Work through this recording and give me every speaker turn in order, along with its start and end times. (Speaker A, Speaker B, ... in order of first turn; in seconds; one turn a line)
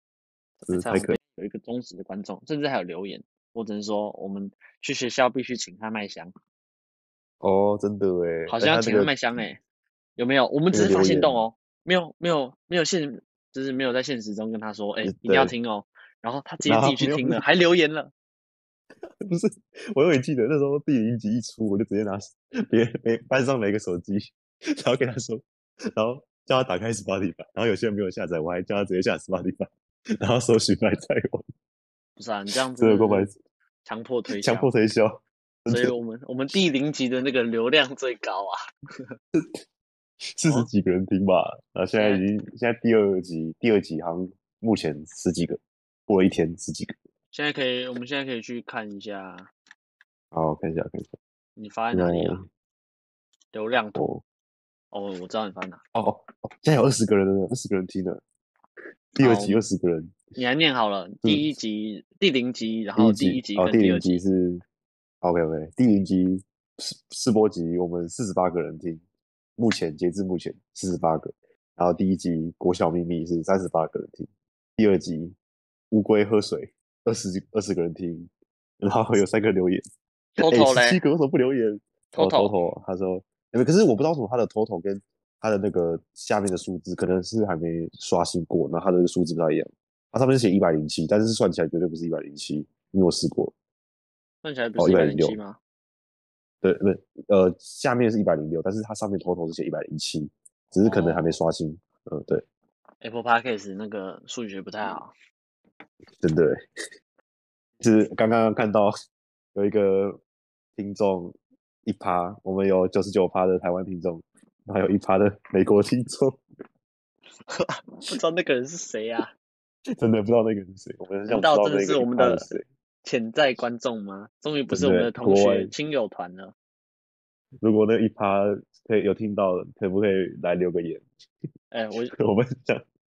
Speaker A: 0.6-6.3
Speaker B: 0.7-1.2
Speaker B: 7.4-9.1
Speaker A: 8.5-9.6
Speaker A: 10.2-18.1
Speaker B: 10.7-11.4
Speaker B: 15.0-15.5
Speaker B: 16.6-17.4
Speaker B: 19.2-25.4
Speaker B: 25.9-29.7
Speaker B: 30.2-31.4
Speaker A: 32.2-33.3
Speaker B: 32.8-33.3
Speaker A: 33.8-34.7
Speaker B: 34.3-36.0
Speaker A: 35.7-38.6
Speaker B: 40.4-46.9
Speaker A: 42.0-42.3
Speaker A: 47.3-49.5
Speaker B: 50.3-51.1
Speaker A: 51.5-52.4
Speaker B: 51.9-52.4
Speaker A: 53.5-54.1
Speaker B: 54.0-54.2
Speaker A: 54.9-55.8
Speaker B: 55.9-58.2
Speaker B: 59.2-60.2
Speaker A: 59.2-59.6
Speaker A: 60.4-64.2
Speaker B: 63.0-64.6
Speaker B: 65.2-69.0
Speaker B: 69.6-75.3
Speaker B: 75.9-78.3
Speaker B: 78.8-79.8
Speaker A: 80.4-81.0
Speaker B: 80.4-93.5
Speaker A: 82.1-82.5
Speaker A: 94.4-95.6
Speaker B: 94.8-95.4
Speaker B: 96.6-102.4
Speaker A: 100.8-101.4
Speaker A: 103.0-105.1
Speaker B: 106.2-106.6
Speaker B: 107.8-108.9
Speaker B: 109.5-110.2
Speaker B: 110.8-116.4
Speaker A: 117.5-119.3
Speaker B: 120.0-122.6
Speaker A: 121.3-126.5
Speaker B: 124.7-125.7
Speaker B: 127.6-131.0
Speaker A: 131.7-132.1
Speaker B: 132.1-132.8